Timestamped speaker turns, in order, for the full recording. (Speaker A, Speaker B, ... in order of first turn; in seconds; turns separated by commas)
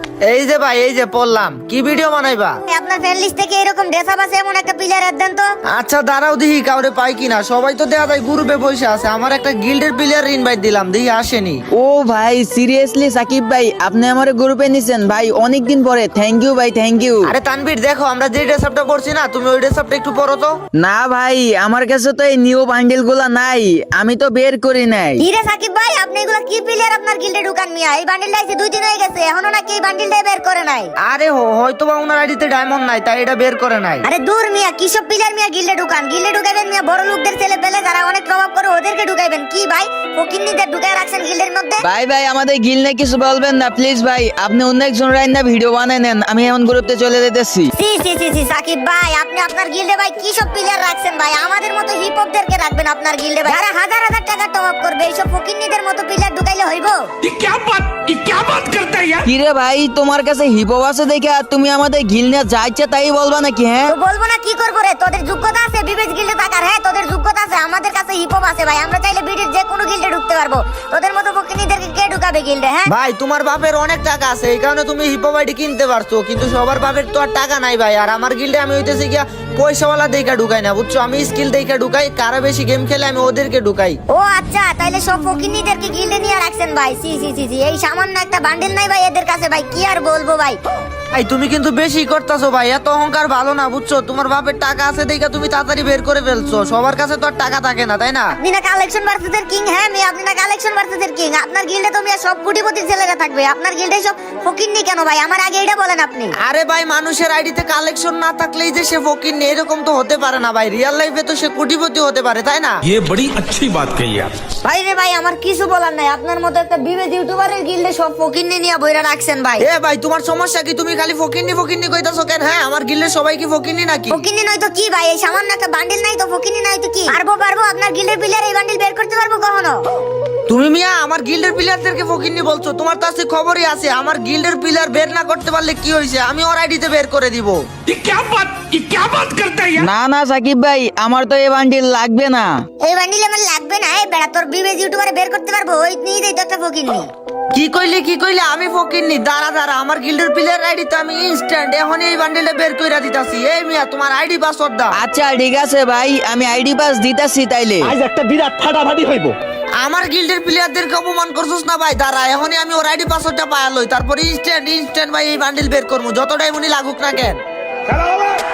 Speaker A: 0.3-2.6, Speaker B: 2.7-5.5, Speaker A: 5.7-11.6, Speaker C: 11.7-17.3, Speaker A: 17.2-20.6, Speaker C: 20.8-25.2, Speaker B: 25.2-30.9, Speaker A: 31.0-34.0, Speaker B: 34.0-41.8, Speaker C: 41.8-47.7, Speaker B: 47.8-57.1, Speaker D: 57.2-59.2, Speaker C: 59.2-63.9, Speaker B: 63.9-72.9, Speaker A: 72.9-84.0, Speaker B: 84.1-90.6, Speaker A: 91.1-98.3, Speaker B: 98.4-106.3, Speaker A: 106.4-112.8, Speaker D: 112.9-114.3, Speaker B: 114.6-119.7, Speaker A: 119.6-124.2, Speaker B: 124.1-129.8, Speaker A: 130.5-137.6, Speaker D: 137.8-139.9, Speaker C: 139.8-142.6, Speaker B: 142.8-147.1, Speaker A: 147.5-154.9, Speaker C: 154.9-157.9, Speaker E: 157.8-159.3, Speaker A: 159.8-167.4, Speaker E: 167.9-168.3